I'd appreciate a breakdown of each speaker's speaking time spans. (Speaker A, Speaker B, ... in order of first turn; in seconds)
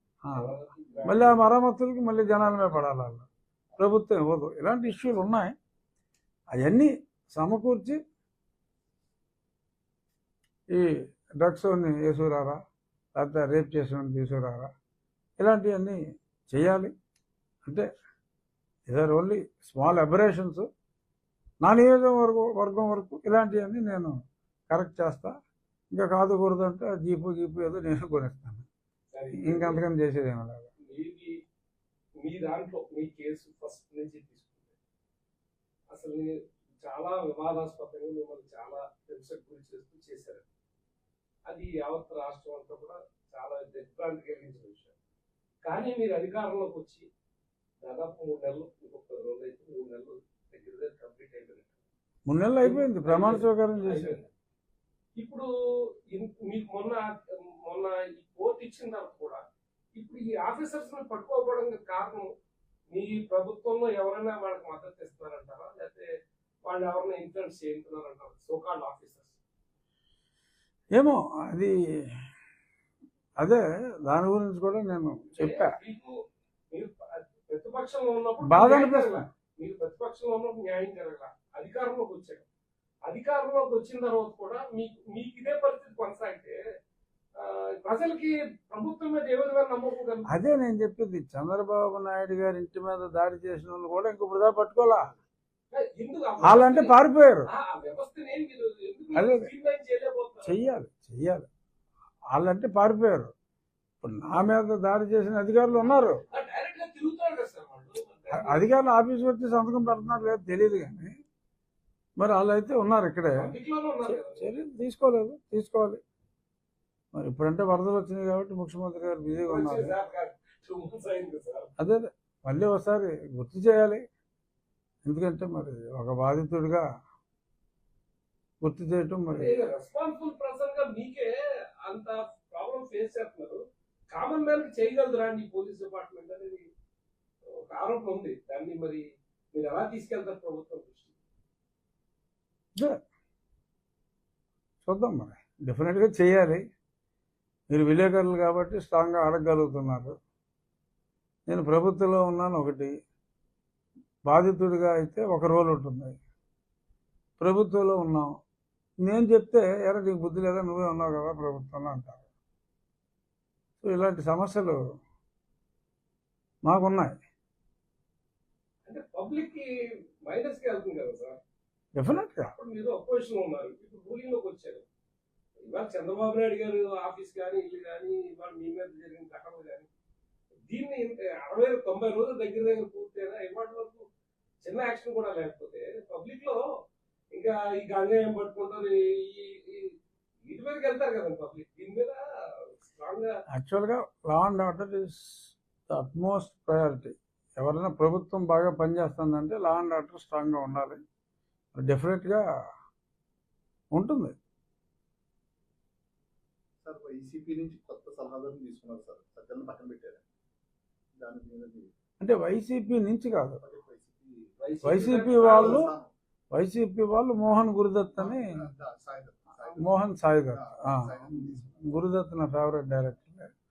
Speaker A: 0.2-0.5, 1.0-3.2, 3.8-5.5, 6.5-8.0, 10.7-12.6, 13.2-14.7, 15.4-16.0, 16.5-16.9, 18.9-20.7, 21.6-24.1, 24.7-25.3, 25.9-28.7, 29.4-30.7, 52.3-54.2, 70.9-71.7, 73.4-75.8, 78.5-79.3, 90.3-95.1, 96.4-97.5, 99.1-99.5, 100.4-101.5, 102.3-103.3, 104.0-106.2, 108.3-111.1, 112.2-113.5, 114.0-116.0, 117.1-120.0, 121.8-124.0, 125.0-126.8, 128.6-129.6, 144.8-146.6, 147.7-150.1, 151.5-152.9, 154.3-156.2, 157.4-158.3, 159.0-162.2, 163.8-164.8, 166.6-167.1, 171.9-172.5, 193.5-201.0, 201.7-202.4, 203.9-204.3, 212.2-213.6, 214.8-215.9, 216.5-218.5, 219.8-223.5
Speaker B: 0.3-1.5, 29.1-29.8, 30.8-31.3, 32.2-34.7, 35.9-40.5, 41.5-44.9, 45.6-47.0, 47.8-51.7, 52.6-54.3, 55.2-55.5, 56.1-59.4, 60.0-62.3, 62.9-66.1, 66.6-69.4, 75.3-76.2, 76.7-82.5, 83.0-86.6, 87.3-90.3, 95.7-96.9, 97.5-100.5, 106.2-108.6, 113.4-114.5, 119.4-121.7, 129.3-136.7, 137.4-141.2, 168.8-169.7, 170.2-171.4, 172.4-174.9, 175.7-179.9, 180.7-184.1, 184.6-186.6, 187.3-193.3, 214.6-215.9
Speaker C: 206.8-210.2, 211.2-211.9, 213.6-216.1, 218.2-219.9, 220.5-222.0